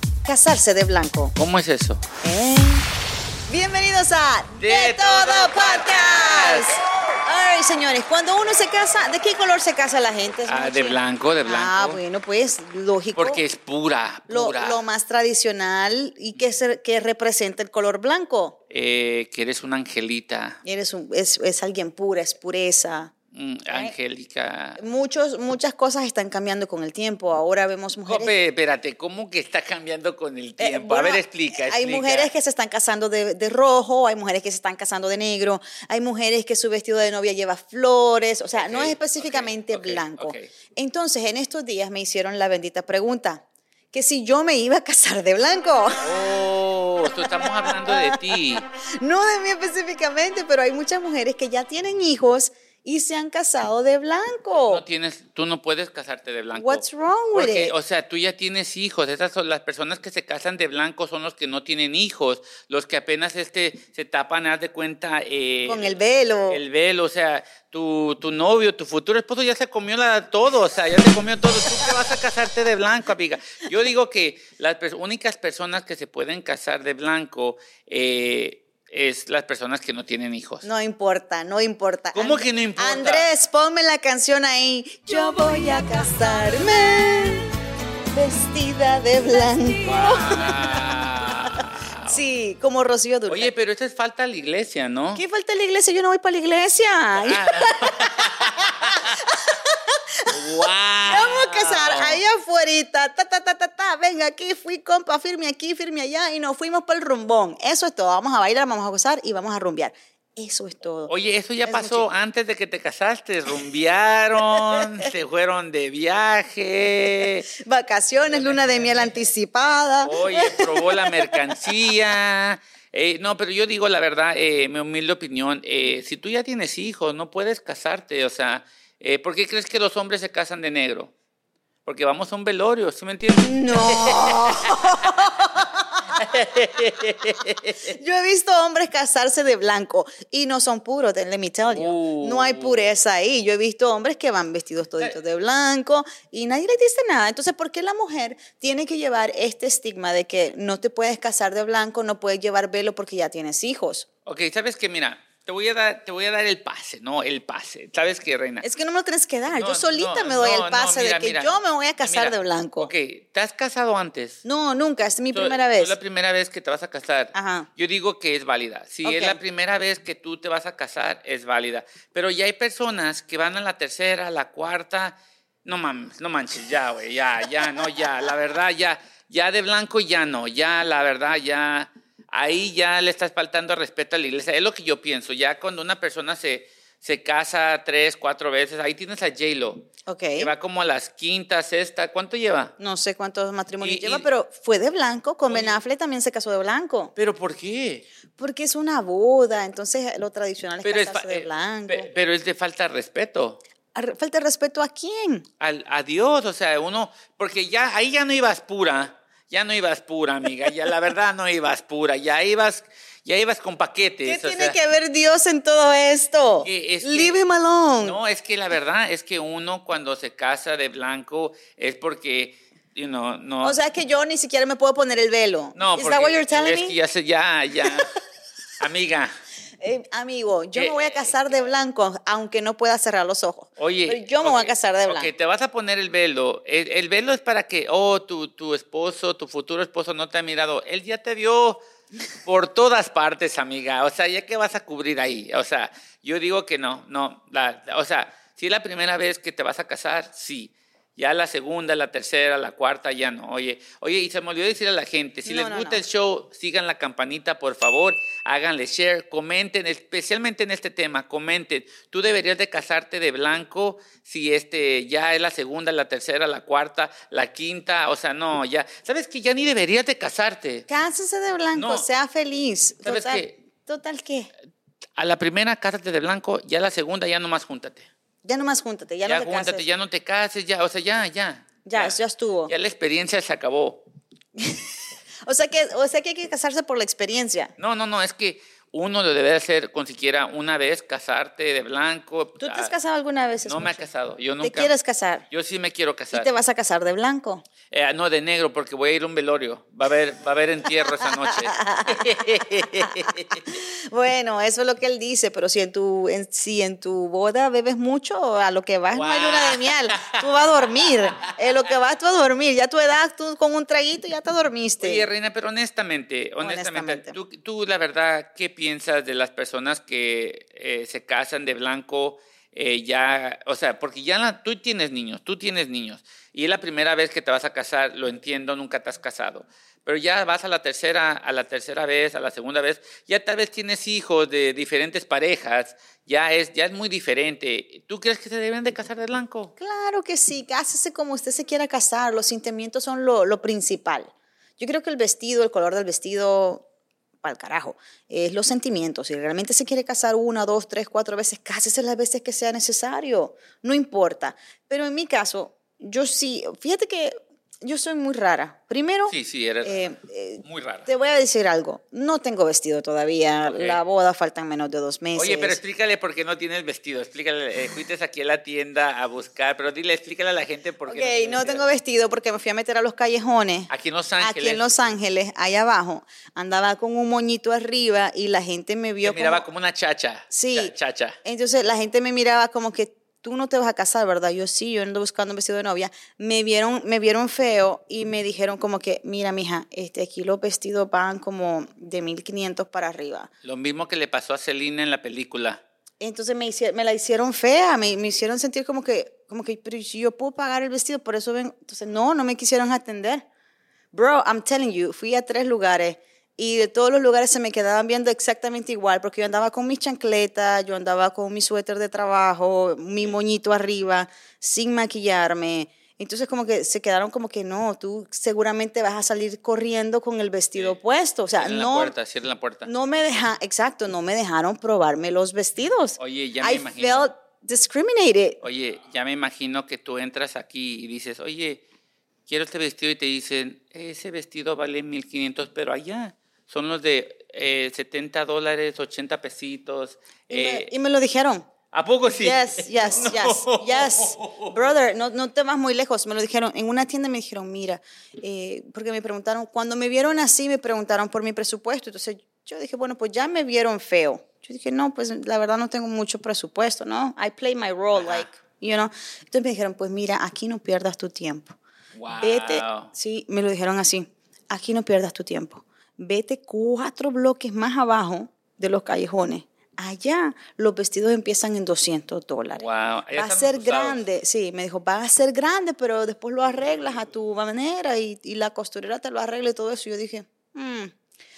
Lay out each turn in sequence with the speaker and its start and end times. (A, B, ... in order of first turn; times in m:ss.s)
0:00.2-0:01.3 A
0:01.4-0:02.0 B
0:02.2-0:02.8 A
0:03.5-0:13.4 A
0:04.5-0:06.8 B
0:10.5-0:12.0 B
0:13.2-0:14.8 B
0:14.3-0:18.6 A
0:18.7-0:20.6 B
0:20.6-0:23.1 A
0:23.3-0:24.8 B
0:23.7-0:23.9 A
0:24.8-0:28.3 A
0:28.0-0:32.3 B
0:30.6-0:46.0 A
0:38.6-0:40.5 B
0:46.0-0:48.6 B
0:47.4-0:48.2 A
0:49.0-0:54.8 A
0:54.6-1:06.0 B
0:56.5-0:57.7 A
1:05.6-1:06.6 A
1:06.5-1:20.7 B
1:20.6-1:27.5 A
1:22.1-1:23.3 B
1:28.1-1:30.8 A
1:29.8-1:32.2 B
1:32.0-1:33.5 A
1:33.3-1:35.2 B
1:35.1-1:51.1 A
1:37.1-1:39.1 B
1:40.3-1:42.2 B
1:51.1-1:57.5 B
1:51.6-1:52.1 A
1:57.6-2:01.5 A
1:58.3-1:59.2 B
2:00.0-2:11.1 B
2:11.8-2:15.2 B
2:13.4-2:15.8 A
2:16.1-2:18.0 B
2:17.9-2:34.1 A
2:21.7-2:22.8 B
2:34.2-2:38.6 B
2:38.6-2:42.9 A
2:39.6-2:44.4 B
2:44.4-2:46.0 A
2:45.3-3:12.7 B
2:47.3-2:47.7 A
2:49.0-2:49.4 A
3:10.1-3:10.5 A
3:12.8-3:17.1 A
3:13.8-3:14.3 B
3:15.5-3:15.8 B
3:17.2-3:18.1 B
3:18.4-3:22.1 A
3:20.8-3:23.6 B
3:23.9-3:25.4 A
3:25.6-3:34.8 B
3:34.2-3:38.2 A
3:36.6-3:37.4 B
3:38.0-3:43.8 B
3:43.6-3:47.0 A
3:45.7-3:48.1 B
3:48.8-3:49.3 B
3:49.8-3:55.3 A
3:50.8-3:51.6 B
3:53.8-4:01.8 B
4:02.4-4:30.8 B
4:15.4-4:16.0 A
4:30.9-4:34.5 A
4:31.7-4:32.0 B
4:33.0-4:33.6 B
4:35.2-4:38.1 B
4:38.4-4:39.8 A
4:39.2-4:42.2 B
4:41.8-4:42.7 A
4:42.7-4:44.0 B
4:44.6-4:44.9 A
4:45.4-4:47.7 A
4:47.8-4:52.9 B
4:52.6-4:54.0 A
4:53.6-4:54.9 B
4:54.6-4:55.4 A
4:55.5-4:56.5 B
4:56.3-4:57.6 A
4:57.9-5:03.7 B
5:01.7-5:03.0 A
5:03.6-5:15.3 A
5:09.1-5:10.3 B
5:15.0-5:39.7 B
5:16.6-5:17.4 A
5:39.8-5:46.8 A
5:47.4-6:05.8 A
5:59.3-6:00.1 B
6:00.6-6:01.1 B
6:03.6-6:04.0 B
6:05.3-6:11.9 B
6:11.1-6:19.7 A
6:13.9-6:14.9 B
6:19.2-6:21.4 B
6:20.5-6:33.5 A
6:33.6-6:35.8 B
6:36.2-6:43.4 A
6:44.1-7:02.1 A
7:01.6-7:02.9 B
7:02.8-7:08.6 A
7:06.2-7:07.3 B
7:08.6-7:11.8 B
7:12.5-7:20.9 B
7:20.5-7:21.7 A
7:21.9-7:24.8 B
7:22.3-7:41.8 A
7:38.1-7:38.5 B
7:42.1-7:43.1 B
7:42.4-8:01.1 A
7:52.8-7:54.2 B